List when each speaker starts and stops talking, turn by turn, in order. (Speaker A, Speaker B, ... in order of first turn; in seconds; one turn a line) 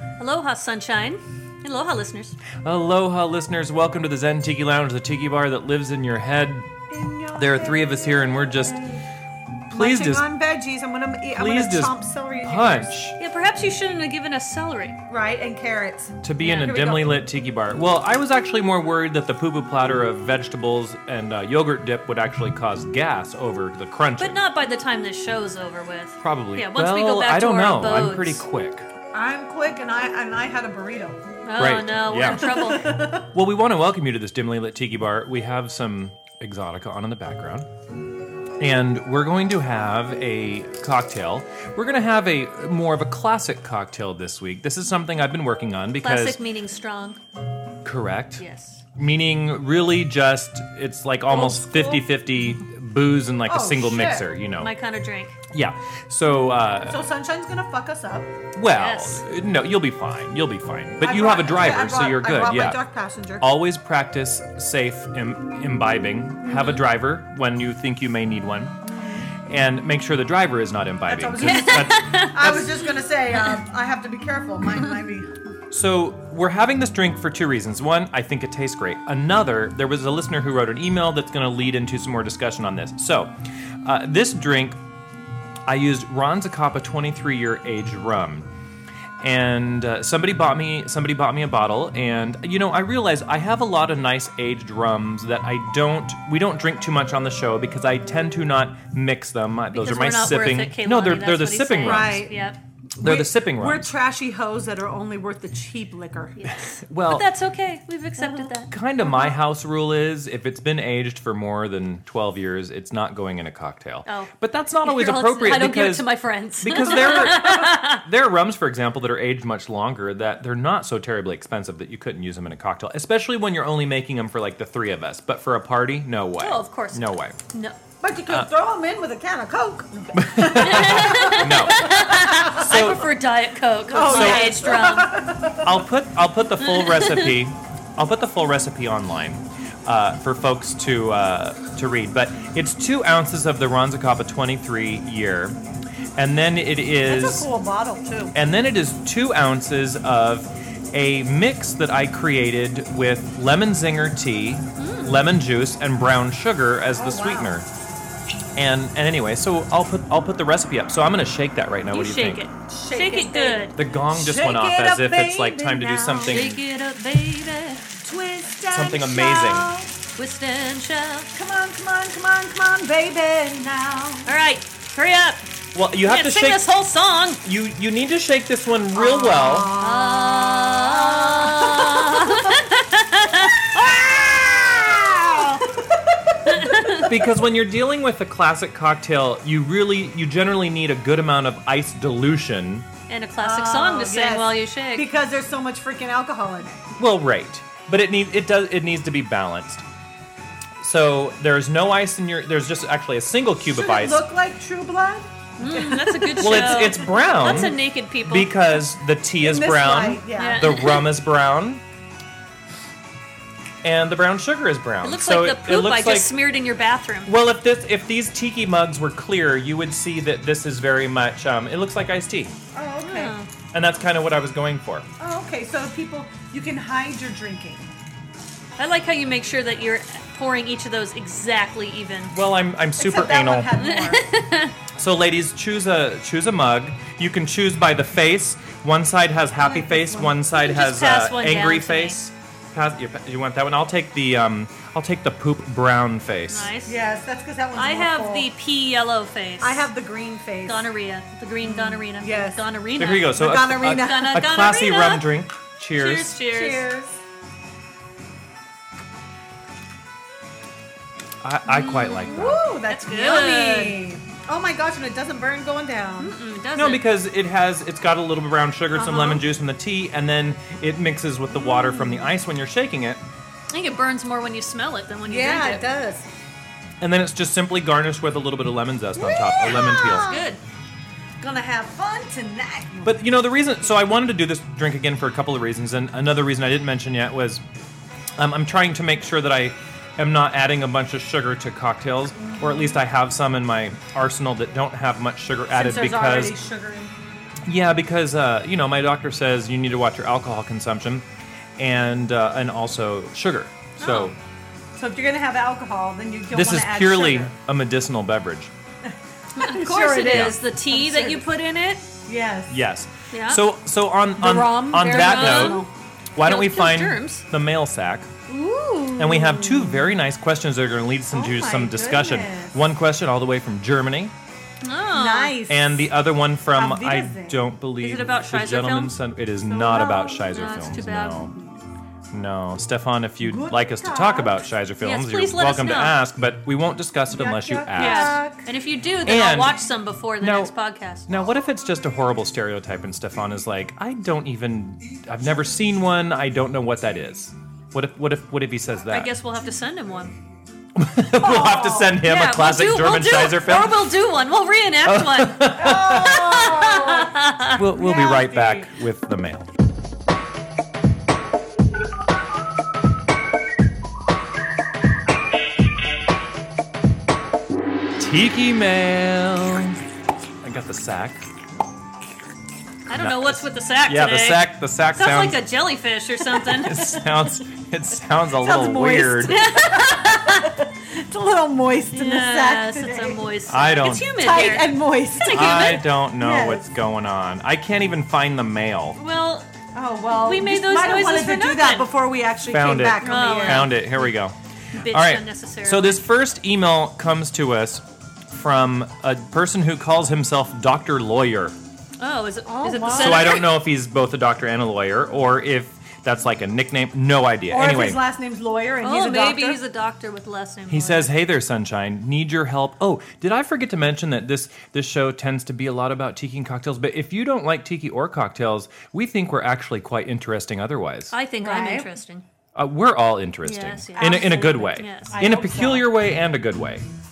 Speaker A: 0.2-2.4
Speaker B: 2.6-6.7
Speaker C: 6.9-9.0
Speaker B: 7.3-8.8
Speaker B: 9.7-10.3
Speaker C: 9.7-12.9
Speaker B: 11.3-13.2
Speaker A: 13.2-15.0
Speaker C: 15.1-17.1
Speaker B: 16.2-24.4
Speaker A: 16.4-16.8
Speaker A: 24.2-28.4
Speaker B: 26.2-28.9
Speaker C: 29.1-31.2
Speaker A: 31.4-32.9
Speaker B: 31.6-32.6
Speaker C: 32.4-33.2
Speaker B: 33.2-37.7
Speaker B: 38.6-46.4
Speaker A: 46.0-47.2
Speaker B: 47.8-48.4
Speaker A: 48.4-48.8
Speaker B: 48.9-54.7
Speaker A: 51.3-52.0
Speaker C: 53.5-54.3
Speaker A: 54.6-55.4
Speaker B: 55.5-57.0
Speaker C: 56.9-58.3
Speaker B: 58.5-62.8
Speaker A: 58.7-59.2
Speaker C: 61.0-63.5
Speaker B: 63.4-68.8
Speaker A: 66.5-66.8
Speaker C: 68.8-69.3
Speaker B: 69.4-72.7
Speaker C: 71.1-75.3
Speaker A: 71.4-72.6
Speaker B: 75.7-84.8
Speaker B: 85.7-88.5
Speaker B: 89.2-102.2
Speaker A: 99.7-102.6
Speaker C: 101.8-102.5
Speaker B: 103.0-103.9
Speaker C: 103.0-106.5
Speaker A: 106.4-108.7
Speaker B: 106.8-107.3
Speaker C: 108.2-108.5
Speaker B: 108.7-116.0
Speaker C: 109.0-109.3
Speaker A: 114.0-114.3
Speaker A: 114.8-118.0
Speaker B: 116.6-127.4
Speaker A: 126.4-127.8
Speaker C: 128.0-133.0
Speaker B: 130.2-133.1
Speaker A: 130.5-135.2
Speaker C: 133.9-135.8
Speaker B: 134.0-134.8
Speaker B: 135.6-145.6
Speaker A: 136.6-137.3
Speaker B: 146.2-147.5
Speaker C: 147.0-148.3
Speaker B: 148.3-157.7
Speaker A: 154.8-155.2
Speaker C: 156.9-157.6
Speaker B: 158.5-162.4
Speaker A: 161.9-163.8
Speaker C: 162.7-166.5
Speaker B: 163.7-166.6
Speaker A: 166.2-167.9
Speaker C: 168.0-169.9
Speaker B: 168.7-169.7
Speaker A: 170.2-171.3
Speaker C: 171.3-174.3
Speaker A: 174.2-175.5
Speaker B: 175.7-176.6
Speaker A: 176.0-177.4
Speaker B: 177.4-179.7
Speaker C: 178.9-182.6
Speaker A: 179.8-185.4
Speaker C: 183.8-187.1
Speaker A: 186.5-187.1
Speaker B: 187.1-192.9
Speaker A: 193.1-195.1
Speaker C: 193.4-196.8
Speaker B: 196.9-199.8
Speaker B: 200.8-204.2
Speaker C: 203.7-207.7
Speaker A: 205.6-208.5
Speaker B: 206.4-211.8
Speaker C: 209.4-210.9
Speaker A: 210.4-211.0
Speaker B: 213.8-216.3
Speaker A: 215.0-217.3
Speaker B: 217.2-222.5
Speaker C: 222.7-223.3
Speaker A: 223.0-223.5
Speaker B: 223.7-225.1
Speaker C: 225.2-227.9
Speaker A: 228.8-232.3
Speaker B: 232.3-233.7
Speaker C: 233.0-234.2
Speaker A: 233.8-234.7
Speaker B: 234.9-246.7
Speaker C: 239.6-240.3
Speaker A: 240.5-242.2
Speaker A: 246.5-246.9
Speaker C: 246.8-248.5
Speaker A: 247.8-249.8
Speaker C: 249.6-250.8
Speaker A: 250.7-255.2
Speaker C: 251.6-252.6
Speaker B: 253.0-256.4
Speaker C: 253.3-254.4
Speaker A: 255.9-256.9
Speaker C: 256.4-257.2
Speaker B: 261.4-262.6
Speaker A: 261.7-264.0
Speaker C: 262.2-266.3
Speaker A: 266.2-267.0
Speaker B: 266.7-273.2
Speaker C: 268.9-269.4
Speaker C: 271.7-272.0
Speaker A: 273.7-275.8
Speaker C: 275.3-276.3
Speaker B: 277.0-280.3
Speaker C: 279.1-280.5
Speaker A: 279.7-280.6
Speaker C: 281.4-283.1
Speaker B: 283.0-287.6
Speaker B: 288.4-296.5
Speaker C: 292.4-293.0
Speaker C: 295.7-297.1
Speaker B: 297.7-301.2
Speaker B: 301.8-304.4
Speaker A: 304.0-304.3
Speaker C: 304.9-307.5
Speaker B: 306.5-308.7
Speaker C: 309.1-311.5
Speaker A: 309.6-312.1
Speaker B: 310.3-310.6
Speaker C: 312.2-312.8
Speaker B: 312.7-315.8
Speaker A: 313.3-313.6
Speaker C: 314.4-315.9
Speaker A: 314.9-315.9
Speaker B: 316.4-318.3
Speaker A: 316.4-317.4
Speaker C: 318.5-320.1
Speaker B: 319.2-324.3
Speaker C: 321.3-322.7
Speaker A: 324.8-325.6
Speaker C: 325.1-326.1
Speaker B: 325.7-331.5
Speaker C: 326.7-327.6
Speaker A: 328.0-329.1
Speaker C: 329.6-330.4
Speaker A: 330.3-331.5
Speaker B: 332.3-338.4
Speaker C: 333.4-334.6
Speaker A: 335.0-336.2
Speaker C: 337.3-338.6
Speaker A: 337.9-341.3
Speaker B: 339.2-339.8
Speaker B: 340.4-340.7
Speaker B: 341.3-349.3
Speaker A: 349.1-350.3
Speaker B: 350.9-354.0
Speaker C: 351.4-352.1
Speaker A: 352.2-357.8
Speaker B: 355.0-356.4
Speaker C: 355.7-357.3
Speaker B: 357.8-359.7
Speaker C: 357.9-358.9
Speaker B: 368.2-370.0
Speaker B: 370.6-371.4
Speaker A: 373.1-377.2
Speaker B: 373.1-375.6
Speaker B: 376.8-379.7
Speaker C: 378.6-383.4
Speaker A: 379.5-380.7
Speaker A: 382.1-386.0
Speaker B: 383.7-384.3
Speaker C: 384.4-386.8
Speaker B: 385.5-389.2
Speaker A: 389.1-389.7
Speaker C: 389.9-393.9
Speaker A: 390.3-392.1
Speaker B: 392.6-401.8
Speaker A: 393.2-394.3
Speaker A: 394.9-396.2
Speaker A: 402.2-403.7
Speaker C: 402.6-403.6
Speaker B: 403.1-408.2
Speaker C: 407.7-409.8
Speaker A: 409.0-411.3
Speaker B: 410.9-421.3
Speaker A: 421.3-422.4
Speaker C: 421.6-422.1
Speaker B: 422.8-427.0
Speaker A: 423.6-425.4
Speaker C: 424.1-426.1